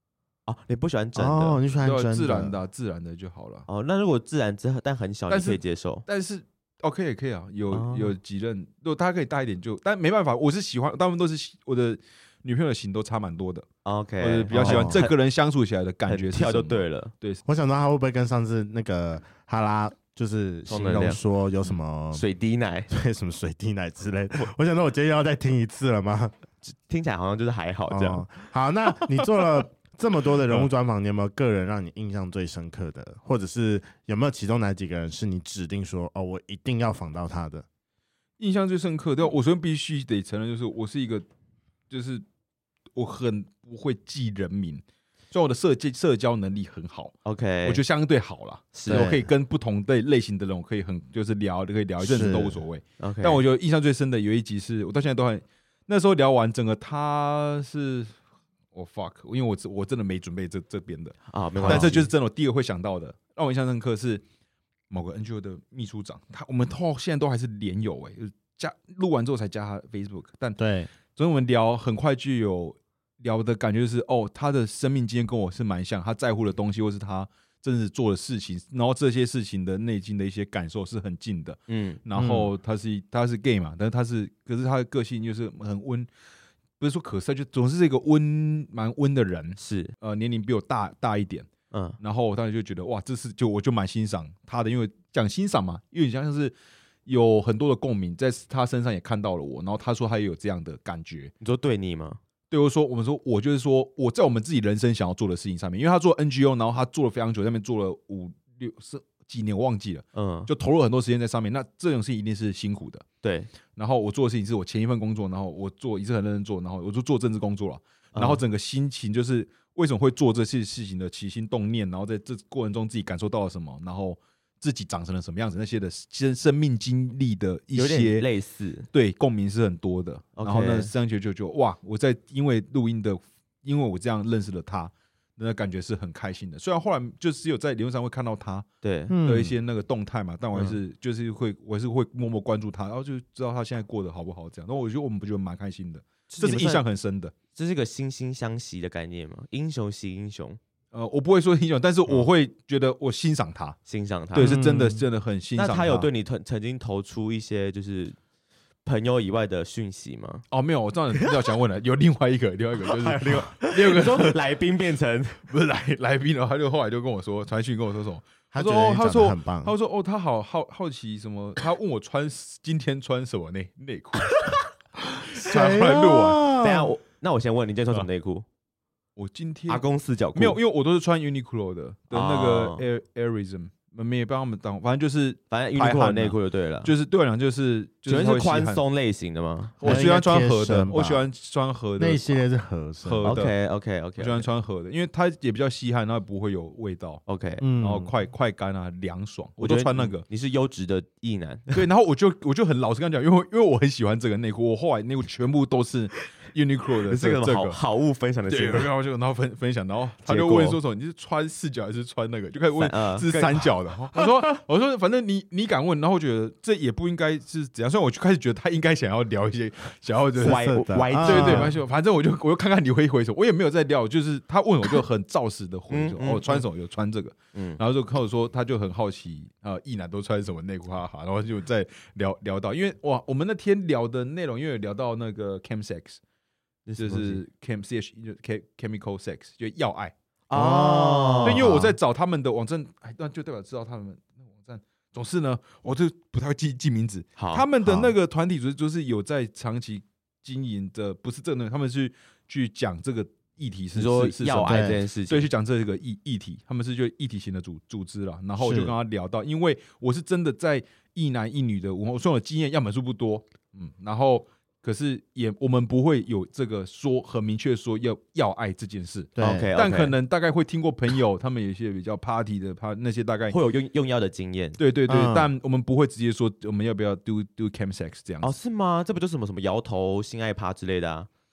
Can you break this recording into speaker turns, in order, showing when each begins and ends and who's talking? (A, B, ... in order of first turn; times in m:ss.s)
0:00.5-0:01.6 A
0:01.1-0:02.5 B
0:01.8-0:03.6 C
0:03.7-0:06.0 A
0:05.3-0:13.6 C
0:07.7-0:08.2 A
0:13.8-0:15.1 A
0:14.2-0:17.4 C
0:14.5-0:15.0 B
0:16.1-0:17.1 A
0:17.4-0:22.2 B
0:20.7-0:21.2 A
0:22.1-0:22.9 A
0:22.9-0:26.3 B
0:26.6-0:28.2 A
0:27.9-0:37.6 B
0:38.4-0:41.2 C
0:41.9-0:42.2 C
0:42.9-0:47.1 C
0:47.2-0:47.8 A
0:47.6-0:58.1 C
0:48.7-0:49.1 A
0:48.9-0:49.3 B
0:52.0-0:52.6 B
0:53.0-0:53.4 A
0:58.7-1:04.2 C
1:01.3-1:02.1 A
1:01.6-1:02.0 B
1:04.9-1:10.6 C
1:10.6-1:10.9 B
1:11.2-1:26.1 C
1:21.7-1:22.0 A
1:22.2-1:22.5 B
1:26.8-1:31.5 C
1:29.6-1:29.9 A
1:31.7-1:32.0 A
1:32.0-1:36.5 C
1:37.0-1:41.3 C
1:41.4-1:42.2 A
1:42.5-1:53.0 C
1:50.1-1:50.5 A
1:53.2-1:53.5 A
1:53.8-2:08.3 C
1:58.1-1:58.4 A
2:07.7-2:08.8 A
2:08.9-2:18.6 C
2:10.4-2:10.9 A
2:18.8-2:19.1 A
2:19.1-2:19.5 B
2:19.2-2:27.3 C
2:26.3-2:26.8 A
2:27.5-2:30.6 A
2:30.9-2:33.8 C
2:33.9-2:34.6 A
2:34.3-2:36.1 C
2:34.4-2:35.0 B
2:35.6-2:38.2 A
2:38.8-2:40.4 A
2:40.5-2:44.4 C
2:42.8-2:45.4 A
2:45.5-2:54.6 C
2:48.5-2:49.7 B
2:55.2-2:56.4 C
2:55.3-2:56.9 B
2:56.6-2:58.4 A
2:59.2-2:59.8 C
2:59.7-3:00.6 A
3:00.3-3:08.8 C
3:02.1-3:02.8 A
3:05.5-3:06.9 A
3:08.1-3:10.0 A
3:09.8-3:12.4 C
3:09.8-3:11.2 B
3:12.0-3:13.3 B
3:13.0-3:13.5 C
3:13.2-3:14.4 A
3:14.2-3:17.2 C
3:17.3-3:17.6 A
3:17.6-3:18.1 B
3:17.8-3:20.2 C
3:19.6-3:21.8 A
3:21.7-3:27.8 C
3:27.1-3:28.9 A
3:28.5-3:56.2 C
3:30.2-3:30.8 A
3:32.7-3:33.5 A
3:40.4-3:41.8 B
3:40.4-3:41.7 A
3:45.9-3:46.6 A
3:47.5-3:47.8 A
3:56.9-3:57.4 A
3:57.0-4:00.1 C
4:00.5-4:01.8 A
4:00.5-4:01.9 B
4:00.8-4:33.6 C
4:07.4-4:07.6 A
4:07.8-4:08.1 B
4:13.9-4:15.5 A
4:14.7-4:15.0 B
4:18.6-4:18.9 B
4:29.4-4:29.7 B
4:29.4-4:30.1 A
4:33.5-4:34.8 A
4:34.8-4:38.5 C
4:35.1-4:35.5 B
4:38.4-4:41.3 A